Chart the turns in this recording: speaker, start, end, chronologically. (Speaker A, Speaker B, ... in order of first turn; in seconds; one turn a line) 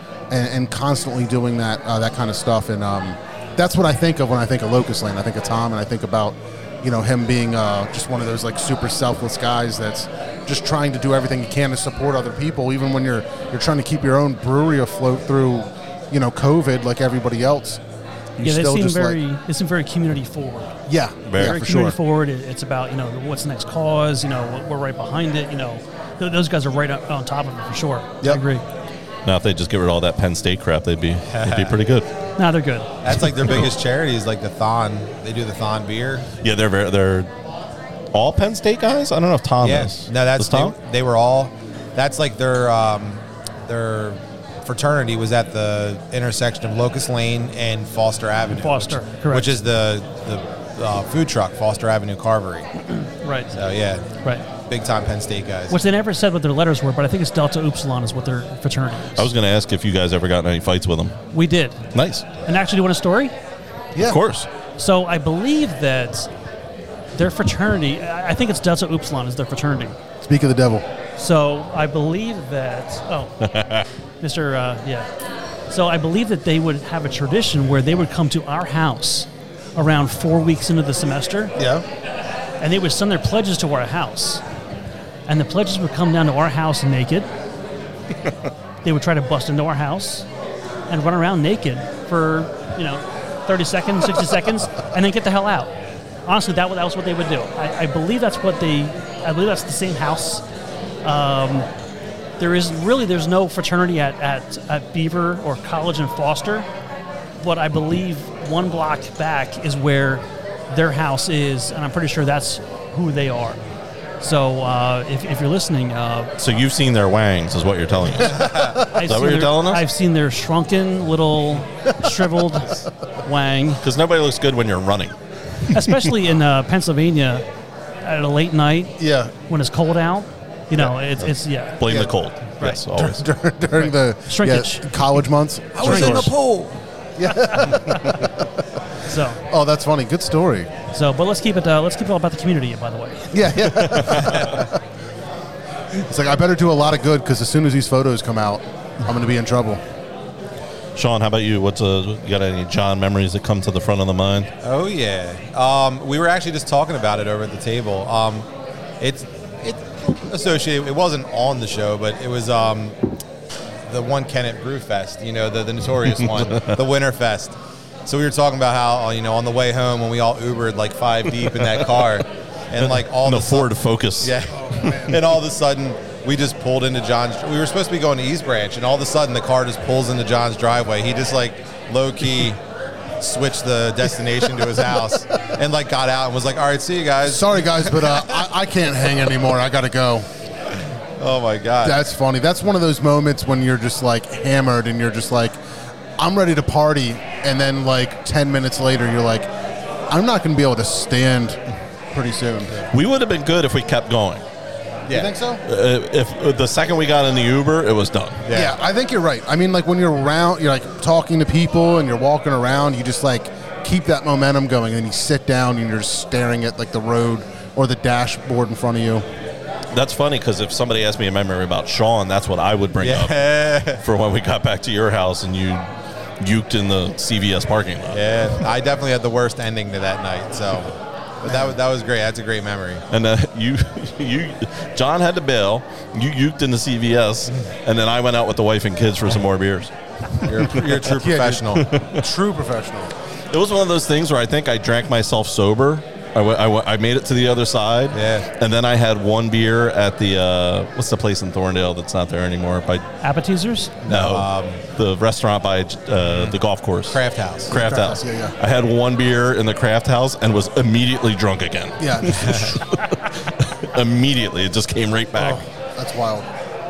Speaker A: 0.3-17.8
Speaker A: 18.4-19.2
Speaker B: 18.4-20.7
Speaker A: 20.9-22.0
Speaker C: 21.2-21.6
Speaker B: 21.4-28.6
Speaker C: 29.2-32.1
Speaker D: 31.3-31.8
Speaker B: 32.4-32.9
Speaker D: 33.0-36.2
Speaker C: 36.4-37.3
Speaker C: 38.1-40.7
Speaker D: 39.6-52.7
Speaker B: 48.5-49.6
Speaker B: 53.2-53.5
Speaker D: 53.5-54.0
Speaker D: 54.7-55.7
Speaker B: 55.7-59.3
Speaker C: 59.2-61.2
Speaker B: 61.3-61.8
Speaker C: 61.9-62.2
Speaker B: 62.4-63.3
Speaker C: 64.0-64.5
Speaker B: 64.8-66.3
Speaker B: 67.1-70.0
Speaker A: 70.2-70.8
Speaker B: 71.2-73.3
Speaker C: 73.4-73.8
Speaker B: 74.2-75.1
Speaker B: 75.7-81.5
Speaker A: 81.6-81.8
Speaker B: 82.6-84.4
Speaker B: 85.3-87.3
Speaker B: 88.8-90.2
Speaker B: 90.9-95.7
Speaker B: 96.2-100.4
Speaker B: 101.0-101.7
Speaker B: 102.4-106.7
Speaker B: 107.4-113.6
Speaker B: 114.2-116.3
Speaker C: 116.4-118.5
Speaker B: 118.8-123.8
Speaker C: 119.0-119.8
Speaker C: 123.8-125.1
Speaker B: 125.7-127.4
Speaker B: 128.0-128.9
Speaker A: 129.0-129.3
Speaker B: 129.5-131.8
Speaker C: 131.8-133.2
Speaker A: 131.8-132.1
Speaker A: 132.9-136.3
Speaker B: 134.3-134.8
Speaker C: 135.8-136.3
Speaker B: 135.8-136.3
Speaker A: 137.2-138.3
Speaker B: 137.6-138.1
Speaker B: 139.1-139.4
Speaker A: 139.5-140.7
Speaker B: 140.9-143.3
Speaker A: 143.3-144.7
Speaker C: 143.8-144.4
Speaker A: 146.0-149.8
Speaker C: 150.9-154.5
Speaker D: 154.6-158.5
Speaker D: 159.0-163.0
Speaker D: 163.9-167.5
Speaker C: 166.1-166.8
Speaker D: 168.1-173.7
Speaker C: 172.8-175.2
Speaker D: 174.2-182.6
Speaker A: 174.7-175.1
Speaker D: 183.2-188.2
Speaker A: 184.6-185.2
Speaker A: 187.2-190.3
Speaker D: 191.2-192.0
Speaker A: 191.8-195.6
Speaker A: 196.2-199.5
Speaker A: 200.1-201.6
Speaker A: 202.1-202.7
Speaker C: 202.9-204.4
Speaker A: 205.1-205.6
Speaker C: 205.6-208.4
Speaker D: 208.4-208.7
Speaker A: 208.5-219.2
Speaker C: 219.9-223.4
Speaker D: 223.0-224.0
Speaker C: 223.9-225.9
Speaker C: 226.4-228.2
Speaker D: 228.1-233.0
Speaker A: 231.4-231.8
Speaker C: 233.1-239.9
Speaker D: 240.4-241.8
Speaker A: 241.0-243.1
Speaker C: 241.8-242.2
Speaker C: 243.5-253.0
Speaker D: 248.1-248.4
Speaker B: 253.2-253.9
Speaker D: 254.0-254.8
Speaker C: 254.1-263.0
Speaker D: 256.2-256.6
Speaker D: 257.1-257.7
Speaker A: 257.7-258.5
Speaker A: 262.0-262.4
Speaker D: 262.4-262.7
Speaker C: 263.9-265.6
Speaker A: 265.9-266.5